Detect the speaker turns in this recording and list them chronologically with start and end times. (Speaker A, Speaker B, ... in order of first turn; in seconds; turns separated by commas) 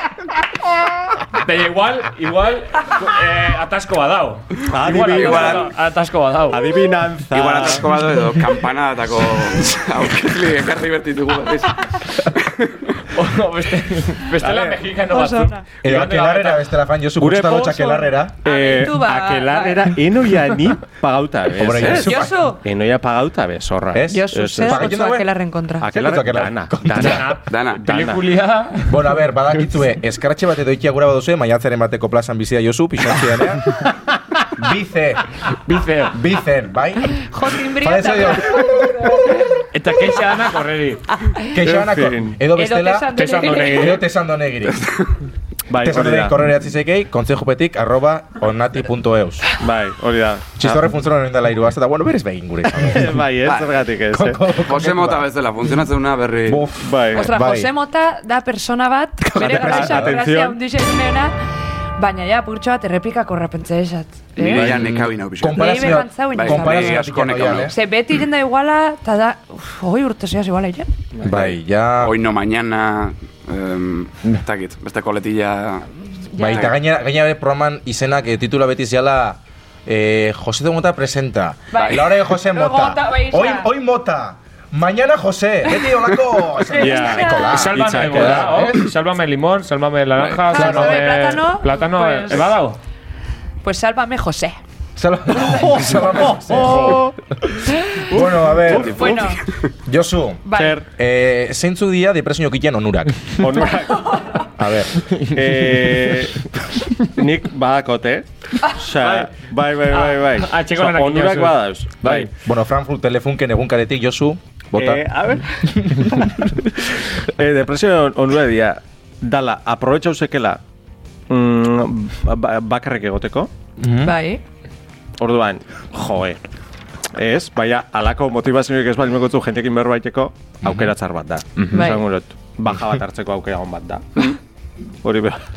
Speaker A: 1.4-6.7, Speaker B: 4.7-5.7, Speaker C: 5.0-5.7, Speaker B: 6.5-7.9, Speaker C: 7.3-13.0, Speaker A: 13.1-16.6, Speaker B: 14.4-14.7, Speaker D: 15.1-15.6, Speaker E: 15.8-18.4, Speaker B: 17.2-25.0, Speaker D: 18.4-19.9, Speaker E: 21.6-22.4, Speaker D: 21.9-22.6, Speaker E: 23.9-25.3, Speaker D: 24.1-25.9, Speaker B: 25.8-28.2, Speaker E: 25.8-27.3, Speaker A: 26.9-29.0, Speaker C: 27.5-27.8, Speaker E: 28.9-33.7, Speaker E: 34.6-35.3, Speaker A: 35.7-36.2, Speaker E: 36.1-39.5, Speaker D: 37.2-39.5, Speaker A: 39.7-41.0, Speaker D: 41.2-41.5, Speaker E: 41.5-44.9, Speaker B: 41.6-42.4, Speaker D: 42.5-44.0, Speaker A: 43.1-44.0, Speaker B: 45.7-46.5, Speaker E: 45.8-49.5, Speaker B: 49.6-50.8, Speaker E: 50.6-53.3, Speaker B: 52.7-54.4, Speaker C: 53.4-53.8, Speaker E: 54.1-55.3, Speaker C: 54.6-56.7, Speaker E: 56.5-57.7, Speaker B: 56.8-57.3, Speaker D: 57.1-61.4, Speaker E: 59.2-60.3, Speaker B: 59.4-60.6, Speaker D: 62.0-64.7, Speaker C: 64.4-67.7, Speaker E: 64.5-67.8, Speaker D: 65.5-67.1, Speaker D: 67.7-70.9, Speaker E: 71.2-72.2, Speaker C: 71.3-75.9, Speaker D: 76.3-76.7, Speaker E: 76.4-88.9, Speaker C: 76.4-76.7, Speaker D: 81.7-83.7, Speaker C: 81.7-82.1, Speaker D: 86.5-87.6, Speaker B: 86.8-88.8, Speaker A: 87.5-92.8, Speaker D: 90.5-92.5, Speaker E: 90.5-91.0, Speaker D: 93.6-94.6, Speaker E: 95.0-97.0, Speaker B: 95.3-97.2, Speaker A: 96.6-97.0, Speaker B: 98.0-99.3, Speaker E: 98.1-99.2, Speaker C: 98.8-99.3, Speaker D: 99.0-99.4, Speaker E: 99.9-103.4, Speaker D: 100.5-100.8, Speaker B: 100.5-100.9, Speaker B: 103.4-104.5, Speaker E: 104.6-105.0, Speaker B: 105.2-106.5, Speaker B: 107.0-112.3, Speaker A: 108.9-109.3, Speaker A: 109.9-112.3, Speaker E: 112.3-115.0, Speaker B: 114.7-116.1, Speaker E: 115.8-116.5, Speaker B: 117.3-120.6, Speaker B: 121.3-123.5, Speaker E: 123.8-124.2, Speaker D: 124.0-124.4, Speaker B: 125.2-126.4, Speaker B: 127.1-134.1, Speaker E: 130.6-130.9, Speaker A: 131.6-131.9, Speaker D: 131.7-132.0, Speaker B: 135.0-135.4